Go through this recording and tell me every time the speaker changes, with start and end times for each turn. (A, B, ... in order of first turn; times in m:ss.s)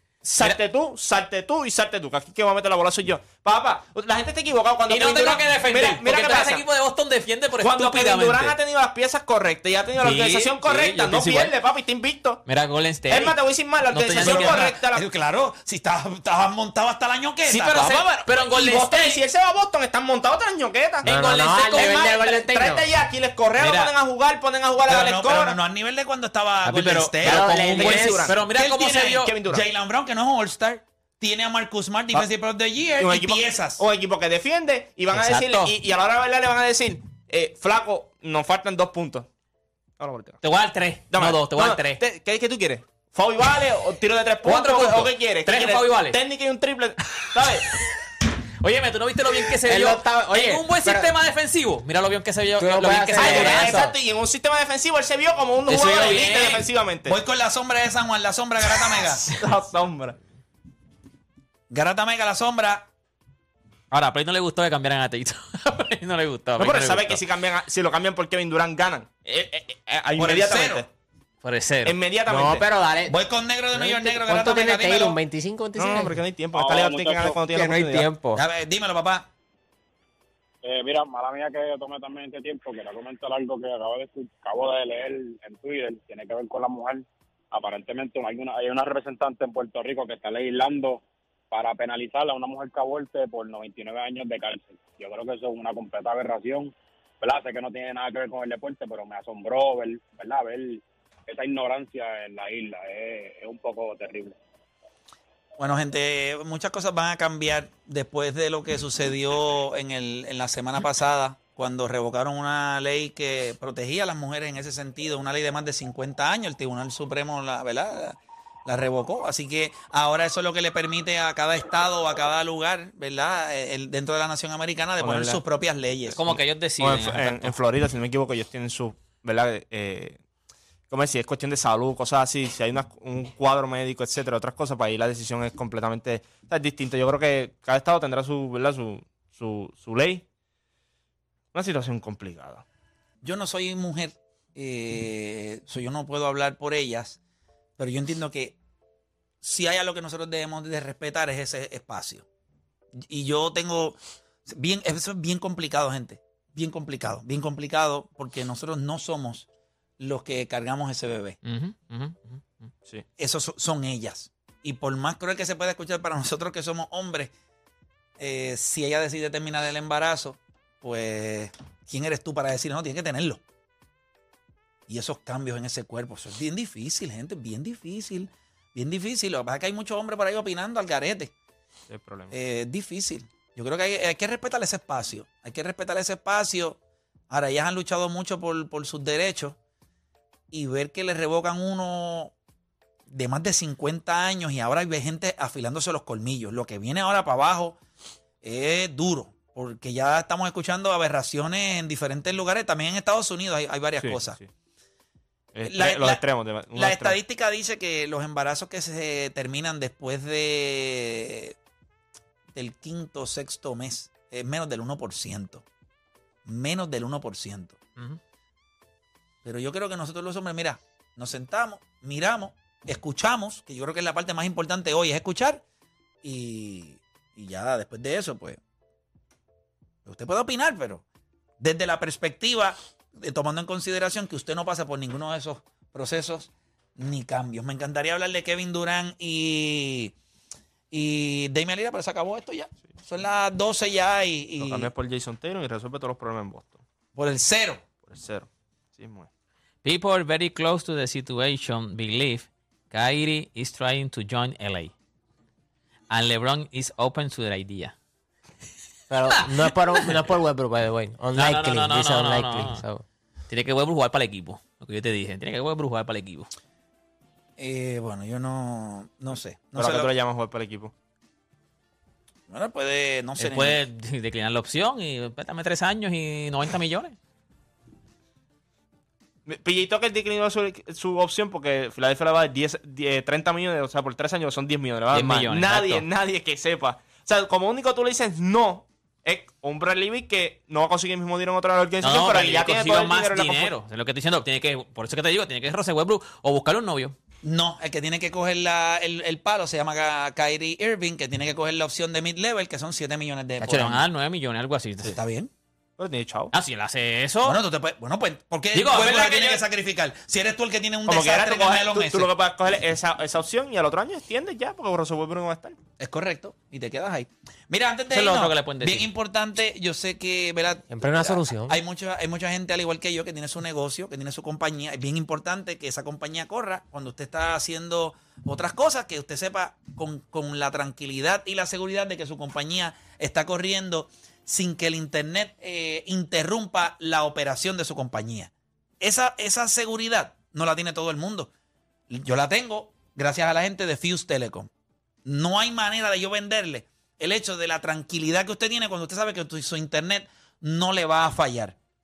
0:00.2-0:06.6 A
0:04.9-0:08.6 B
0:07.6-0:12.4 A
0:10.0-0:11.5 B
0:12.4-0:14.6 B
0:13.1-0:15.0 A
0:14.1-0:17.8 C
0:17.5-0:19.2 B
0:17.8-0:21.1 A
0:21.0-0:22.1 B
0:21.1-0:22.9 D
0:21.7-0:25.6 A
0:23.6-0:23.9 B
0:24.8-0:33.8 C
0:26.6-0:29.4 B
0:27.2-0:28.3 D
0:27.2-0:28.3 A
0:29.2-0:29.6 A
0:33.0-0:39.3 A
0:35.1-0:35.7 B
0:40.0-0:40.4 A
0:40.4-0:42.0 B
0:41.1-0:47.6 A
0:44.4-0:46.2 B
0:47.3-0:48.0 B
0:48.6-0:53.9 B
0:49.7-0:51.1 D
0:52.6-0:53.9 D
0:53.2-0:57.2 A
0:55.7-0:56.6 B
0:56.1-0:59.3 C
0:58.8-1:00.2 A
1:01.7-1:02.9 C
1:03.9-1:07.2 B
1:06.6-1:10.9 A
1:10.2-1:10.8 C
1:11.4-1:12.0 B
1:11.8-1:12.6 A
1:12.3-1:13.2 D
1:13.1-1:15.2 C
1:13.7-1:16.2 D
1:15.8-1:18.1 A
1:16.5-1:17.4 E
1:17.5-1:18.4 D
1:18.4-1:19.3 C
1:20.6-1:44.4 E
1:45.6-2:06.2 C
2:05.0-2:05.4 A
2:06.1-2:07.5 B
2:06.8-2:10.2 A
2:10.9-2:20.2 A
2:21.5-2:22.6 A
2:23.2-2:27.2 C
2:27.8-2:28.6 C
2:29.4-2:32.2 C
2:33.1-2:39.5 C
2:40.0-2:41.4 C
2:41.4-2:42.4 B
2:43.2-2:47.3 C
2:48.2-2:53.4 C
2:54.9-3:01.3 C
3:01.9-3:02.3 A
3:02.3-3:06.8 C
3:07.3-3:09.6 C
3:10.5-3:12.3 C
3:13.1-3:17.8 C
3:18.4-3:24.4 C
3:24.0-3:24.4 A
3:25.6-3:27.2 A
3:25.7-3:26.2 C
3:26.8-3:31.6 C
3:32.6-3:35.6 C
3:36.5-3:37.8 C
3:39.4-3:45.6 C
3:46.2-3:48.6 C
3:50.1-3:51.0 C
3:51.6-4:00.1 C
4:00.9-4:04.9 C
4:04.6-4:06.8 A
4:07.2-4:07.8 C
4:08.0-4:09.3 A
4:09.8-4:14.9 B
4:16.1-4:18.0 B
4:19.1-4:23.0 D
4:19.5-4:20.1 B
4:21.4-4:22.8 B
4:23.5-4:26.5 B
4:27.6-4:30.1 C
4:29.8-4:30.9 A
4:32.5-4:33.8 C
4:33.4-4:37.2 B
4:39.5-4:53.7 A
4:45.1-4:46.1 B
4:52.0-4:57.2 B
4:57.4-5:04.1 C
5:03.6-5:05.2 B
5:05.0-5:05.5 C
5:06.0-5:06.5 A
5:06.5-5:07.6 B
5:07.4-5:12.3 C
5:08.7-5:09.6 B
5:11.1-5:15.8 A
5:16.0-5:41.5 C
5:18.1-5:19.1 B
5:20.9-5:21.8 D
5:42.1-5:44.7 C
5:45.3-5:51.8 C